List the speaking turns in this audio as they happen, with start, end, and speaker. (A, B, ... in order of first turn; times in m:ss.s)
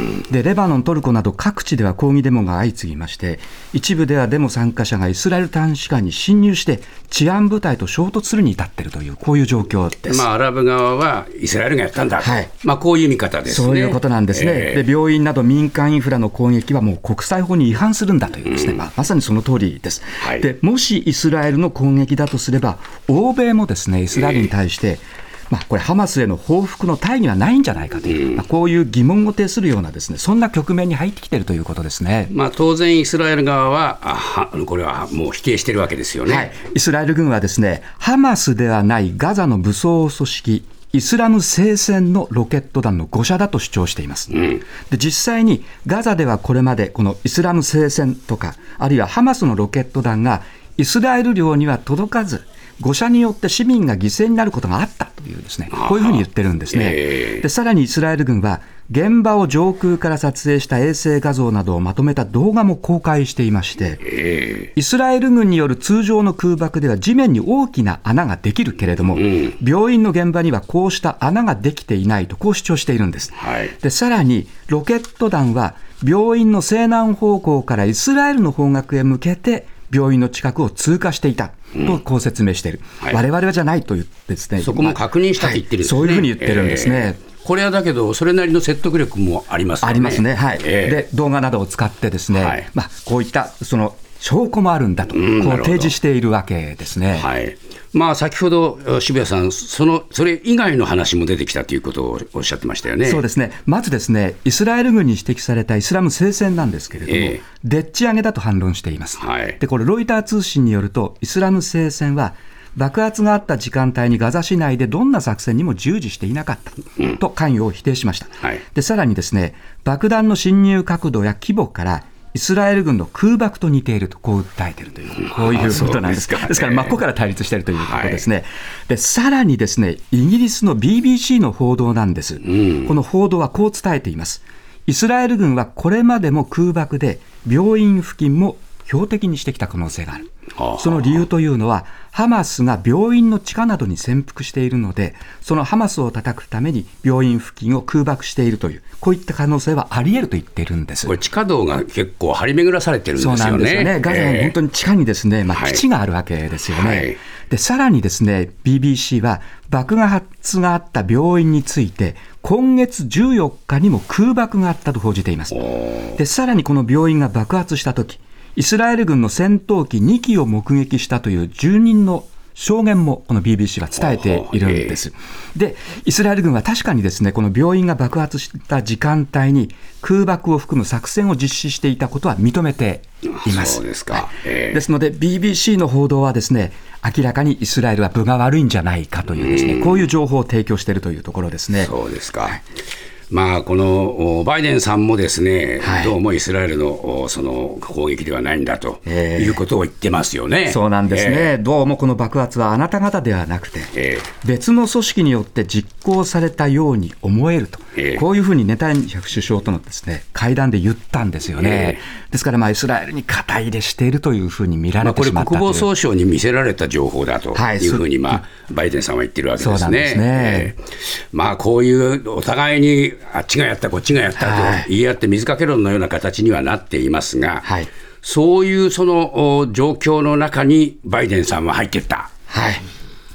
0:00.3-0:10.2 A
0:10.1-0:14.8 B
0:12.2-0:12.5 A
0:13.5-0:32.3 A
0:18.5-0:18.8 B
0:20.2-0:20.4 B
0:24.2-0:24.5 B
0:32.3-0:36.5 B
0:36.2-1:04.0 A
0:44.3-0:44.6 B
0:55.7-0:57.4 B
1:04.1-1:04.7 B
1:04.7-1:27.2 A
1:09.2-1:09.5 B
1:13.4-1:13.7 B
1:24.6-1:31.0 B
1:29.8-1:37.3 A
1:32.3-1:32.6 B
1:35.1-1:35.9 B
1:37.2-1:43.2 B
1:43.0-2:20.2 A
1:47.1-1:47.4 B
1:49.2-1:49.6 B
2:05.3-2:07.0 B
2:07.8-2:08.2 B
2:12.4-2:12.9 B
2:20.6-2:21.2 B
2:20.8-2:31.1 A
2:31.0-2:34.5 B
2:33.2-2:45.6 A
2:35.5-2:35.8 B
2:36.7-2:37.2 B
2:45.5-2:46.2 B
2:46.1-3:11.9 A
2:54.0-2:55.0 B
3:03.4-3:04.8 B
3:09.3-3:10.1 B
3:11.8-3:12.6 B
3:13.3-3:21.5 B
3:15.8-3:16.1 A
3:19.0-3:19.6 A
3:20.7-3:23.9 A
3:23.9-3:24.3 B
3:24.4-3:35.9 A
3:28.0-3:28.2 B
3:31.6-3:32.0 B
3:35.0-3:40.8 B
3:37.5-3:38.4 A
3:39.6-3:40.7 A
3:41.3-3:47.7 B
3:44.4-3:44.8 A
3:47.6-3:47.9 A
3:48.2-3:52.3 B
3:52.5-3:52.8 A